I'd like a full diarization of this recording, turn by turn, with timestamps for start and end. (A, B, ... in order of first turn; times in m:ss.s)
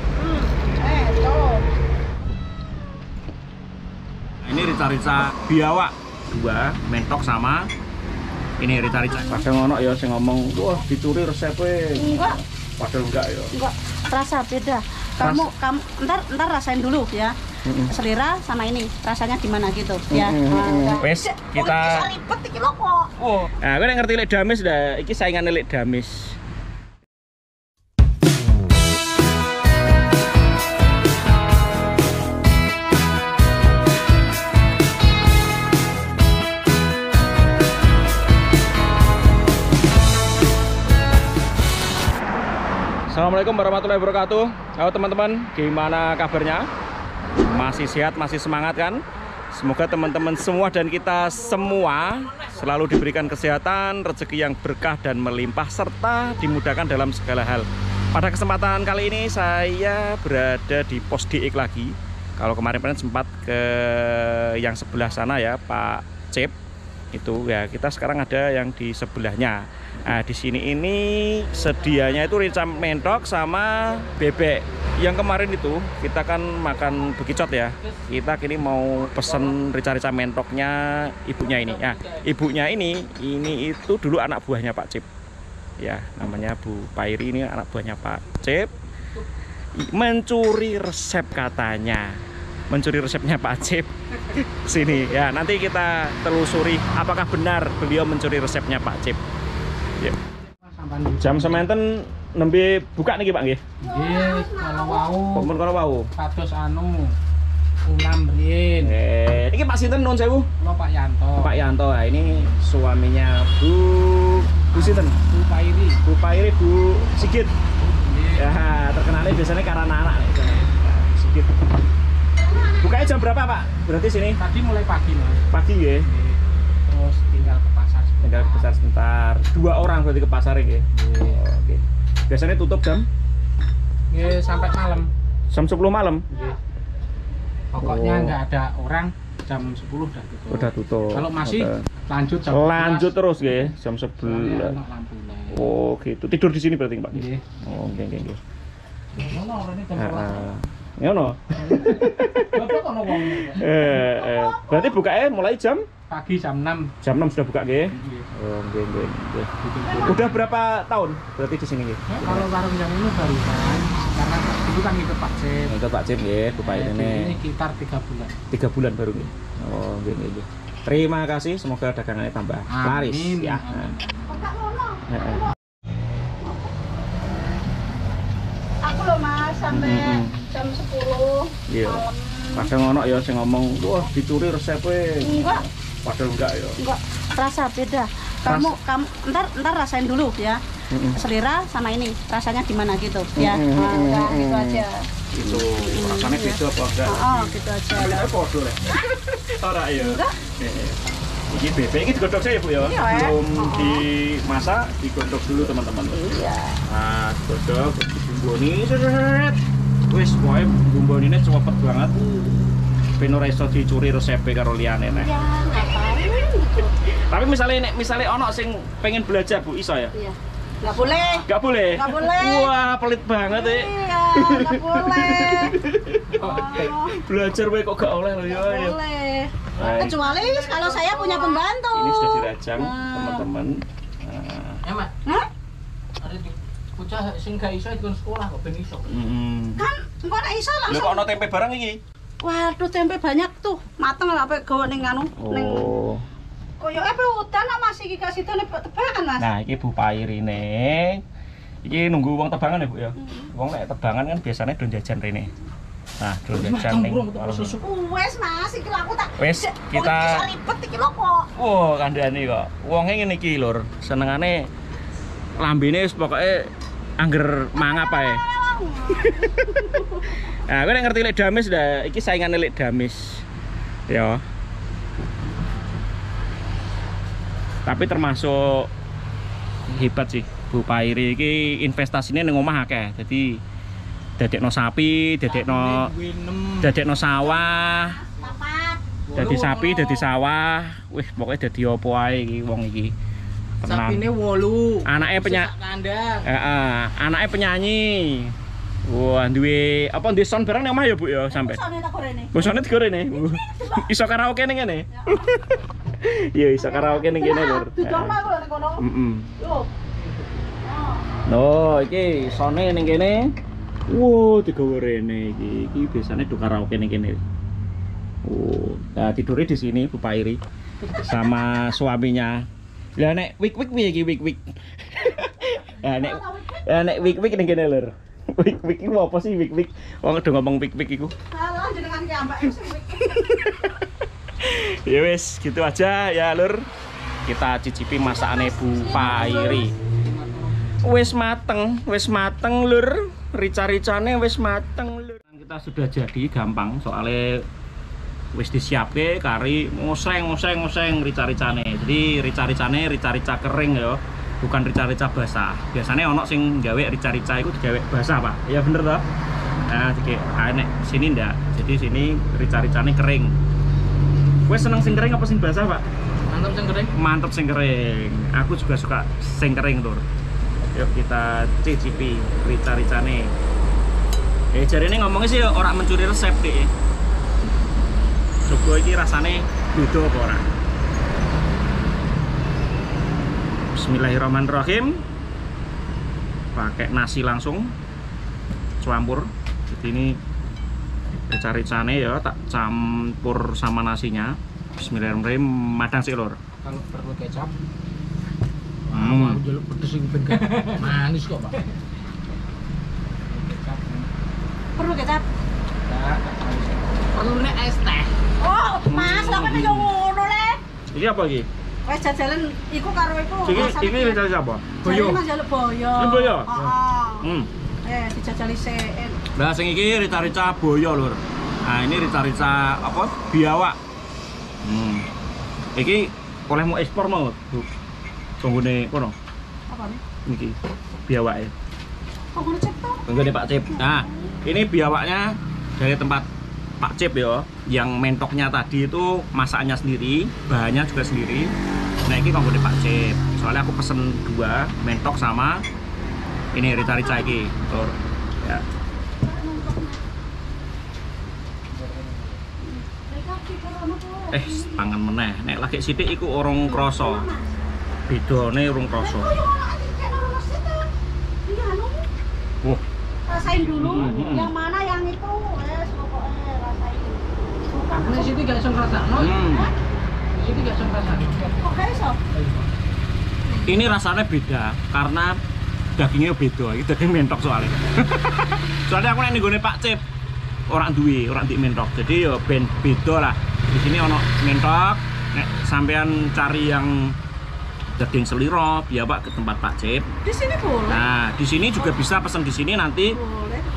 0:00.2-0:01.7 A
0:04.4-0:07.6 B
0:08.6-0:13.5 B
0:09.1-0:09.4 A
0:12.0-0:12.4 A
0:13.5-0:17.4 A
0:15.2-0:15.5 B
0:17.6-0:17.9 B
0:17.9-0:23.1 A
0:20.1-0:22.1 B
0:23.2-0:26.4 B
0:43.1-0:46.7 B
0:47.4-1:06.5 B
1:07.1-1:25.1 B
1:11.6-1:13.0 C
1:19.2-1:19.6 C
1:21.4-1:22.3 C
1:25.8-1:28.7 B
1:29.8-1:39.2 B
1:40.6-1:41.7 C
1:41.2-1:43.6 B
1:43.8-1:45.4 A
1:43.9-1:45.5 C
1:45.3-1:46.1 B
1:46.2-1:47.1 C
1:47.8-1:49.0 C
1:48.8-1:50.5 B
1:50.6-1:51.5 C
1:51.4-1:55.2 B
1:54.8-1:56.0 C
1:56.0-1:57.5 B
1:57.8-1:58.5 C
1:58.4-2:01.6 B
2:02.4-2:03.2 A
2:02.8-2:04.4 B
2:04.4-2:05.4 C
2:05.5-2:06.1 B
2:06.1-2:06.4 C
2:06.9-2:08.7 C
2:08.2-2:13.1 B
2:11.0-2:11.4 C
2:14.1-2:15.1 C
2:14.2-2:15.0 A
2:15.5-2:16.2 B
2:17.8-2:19.0 C
2:17.8-2:18.4 B
2:19.5-2:21.5 C
2:20.5-2:21.9 B
2:22.4-2:23.1 C
2:22.5-2:24.8 B
2:24.2-2:25.7 C
2:25.5-2:28.4 B
2:27.1-2:27.4 C
2:29.1-2:30.5 C
2:30.0-2:35.8 B
2:31.8-2:34.0 C
2:33.9-2:35.0 A
2:36.1-2:36.9 C
2:37.0-2:39.5 B
2:39.6-2:40.4 C
2:40.0-2:42.5 B
2:42.1-2:45.7 C
2:45.7-2:47.4 B
2:46.6-2:48.4 C
2:48.5-2:54.0 B
2:52.7-2:54.0 C
2:54.2-2:55.5 A
2:55.1-2:55.5 B
2:56.4-2:56.7 A
2:58.8-3:02.7 A
2:59.7-3:00.4 B
3:01.7-3:06.8 B
3:05.2-3:05.6 A
3:06.8-3:10.6 A
3:08.5-3:08.8 B
3:10.9-3:11.2 B
3:11.1-3:18.3 A
3:13.4-3:21.0 B
3:20.0-3:20.4 A
3:21.5-3:26.2 B
3:22.8-3:24.1 A
3:26.1-3:26.8 A
3:26.8-3:32.2 B
3:32.2-3:32.7 A
3:33.2-3:35.3 B
3:35.2-3:36.9 A
3:37.0-3:40.1 B
3:40.2-3:42.7 A
3:41.0-3:49.0 B
3:43.5-3:45.8 A
3:46.4-3:47.2 A
3:46.4-3:46.7 C
3:48.4-3:53.5 A
3:49.8-3:50.2 B
3:49.8-3:51.7 C
3:51.9-3:54.8 B
3:54.8-3:55.1 C
3:56.2-3:59.2 C
3:59.1-3:59.9 B
3:59.8-4:01.3 A
4:00.9-4:02.0 B
4:02.4-4:05.9 A
4:05.4-4:06.2 B
4:06.8-4:09.5 A
4:09.4-4:11.2 B
4:11.8-4:15.5 B
4:13.2-4:13.5 A
4:16.2-4:17.8 B
4:16.5-4:17.8 C
4:17.7-4:21.5 A
4:19.4-4:20.5 B
4:21.6-4:24.7 B
4:25.6-4:28.4 B
4:27.9-4:30.4 A
4:29.3-4:29.7 B
4:30.4-4:33.4 B
4:34.1-4:34.4 B
4:37.9-4:38.9 B
4:39.9-4:43.6 B
4:44.4-4:46.1 B
4:45.4-4:47.0 C
4:46.8-4:48.2 B
4:47.4-4:50.3 A
4:49.3-4:49.9 C
4:49.4-4:53.1 B
4:53.8-4:54.3 B
4:53.8-4:56.5 C
4:55.0-4:55.7 B
4:56.4-4:58.5 B
4:59.1-5:01.8 B
5:01.5-5:02.8 A
5:02.5-5:08.4 B
5:03.3-5:04.1 A
5:05.1-5:05.6 A
5:06.8-5:09.0 A
5:09.0-5:09.5 B
5:09.6-5:09.9 A
5:10.8-5:11.3 A
5:11.5-5:13.5 B
5:14.1-5:17.4 B
5:18.4-5:20.6 B
5:21.2-5:22.6 B
5:23.2-5:31.3 B
5:26.0-5:27.7 A
5:31.5-5:33.8 A
5:33.4-5:34.0 B
5:34.6-5:36.9 B
5:37.5-5:40.0 B
5:38.2-5:39.9 A
5:40.3-5:40.7 C
5:41.0-5:47.6 B
5:48.5-5:59.3 B
5:59.9-6:03.5 B
6:04.7-6:06.0 B
6:06.5-6:07.2 C
6:07.2-6:10.2 B
6:10.9-6:13.5 B
6:14.7-6:16.9 B
6:18.7-6:20.7 B
6:23.9-6:25.2 B
6:26.8-6:27.9 B
6:29.0-6:30.4 B
6:31.5-6:36.6 B
6:36.8-6:37.7 C
6:39.1-6:41.8 C
6:39.1-6:39.6 B
6:43.4-6:44.3 C
6:45.0-6:45.5 A
6:46.0-6:48.3 C
6:48.6-6:50.8 A
6:49.1-6:50.1 B
6:51.1-6:51.7 B
6:52.0-6:54.4 A
6:53.6-6:55.4 B
6:55.0-6:57.5 A
6:56.2-6:56.7 B
6:57.4-6:57.7 B
6:58.0-6:59.4 A
6:59.6-7:04.0 B
7:04.8-7:05.3 B
7:06.0-7:07.9 B
7:08.6-7:09.4 B
7:09.9-7:10.2 A
7:10.4-7:11.7 B
7:12.6-7:14.5 A
7:13.3-7:16.5 B
7:17.0-7:21.7 B
7:22.2-7:25.8 B
7:26.7-7:28.8 B
7:27.1-7:27.5 A
7:29.4-7:30.2 A
7:32.0-7:32.6 C
7:32.8-7:35.1 A
7:34.5-7:37.5 B
7:36.8-7:37.8 A
7:38.3-7:39.5 B
7:39.2-7:41.1 A
7:41.7-7:42.3 A
7:43.5-7:48.6 A
7:43.8-7:44.7 B
7:48.1-7:49.6 C
7:49.4-7:49.9 B
7:49.6-7:49.9 A
7:50.6-7:51.9 C
7:51.8-7:52.4 A
7:52.5-7:52.9 C
7:53.8-7:55.6 B
7:56.2-8:00.2 B
8:00.9-8:07.4 B
8:08.2-8:10.3 B
8:10.4-8:11.2 A
8:11.1-8:13.4 B
8:13.3-8:13.9 A